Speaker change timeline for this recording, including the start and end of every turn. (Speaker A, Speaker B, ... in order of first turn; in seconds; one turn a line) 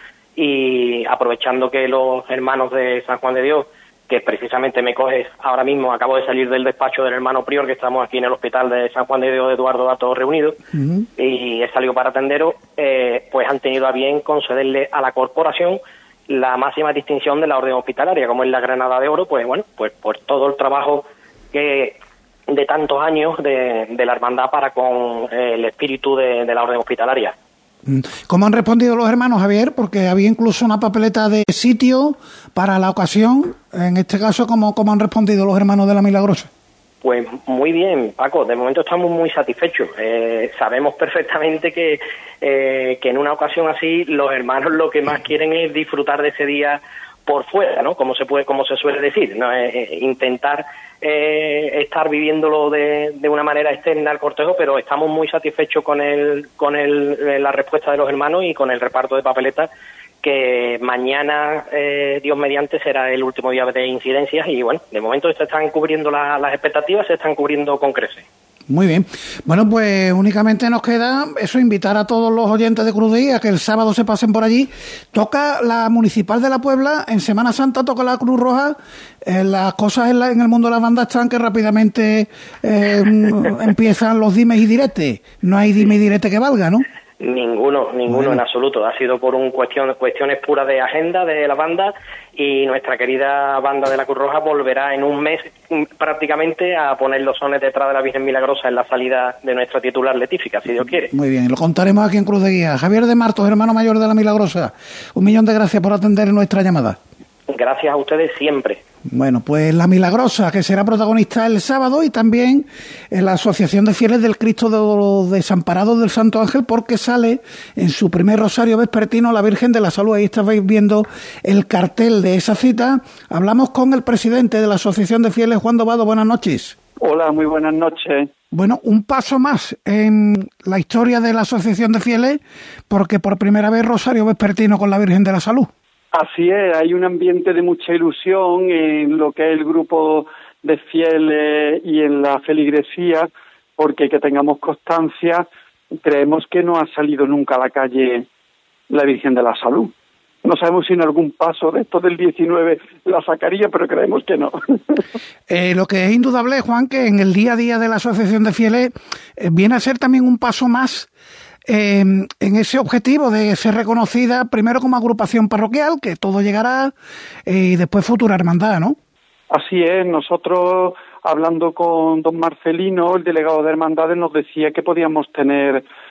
Speaker A: 0.4-10.6
Speaker B: 10.8-11.1
Speaker A: 11.2-27.4
Speaker B: 27.9-36.5
Speaker A: 37.0-59.7
Speaker A: 60.2-68.2
Speaker B: 68.7-86.8
Speaker A: 87.2-101.1
Speaker B: 88.1-88.4
Speaker B: 101.1-107.0
Speaker A: 107.5-108.8
Speaker B: 109.1-126.8
Speaker C: 127.0-128.3
Speaker B: 128.5-135.7
Speaker C: 136.1-145.5
Speaker C: 146.0-148.3
Speaker C: 148.9-149.9
Speaker C: 150.4-155.0
Speaker B: 155.5-161.1
Speaker B: 161.7-166.9
Speaker B: 167.5-169.0
Speaker C: 169.5-175.8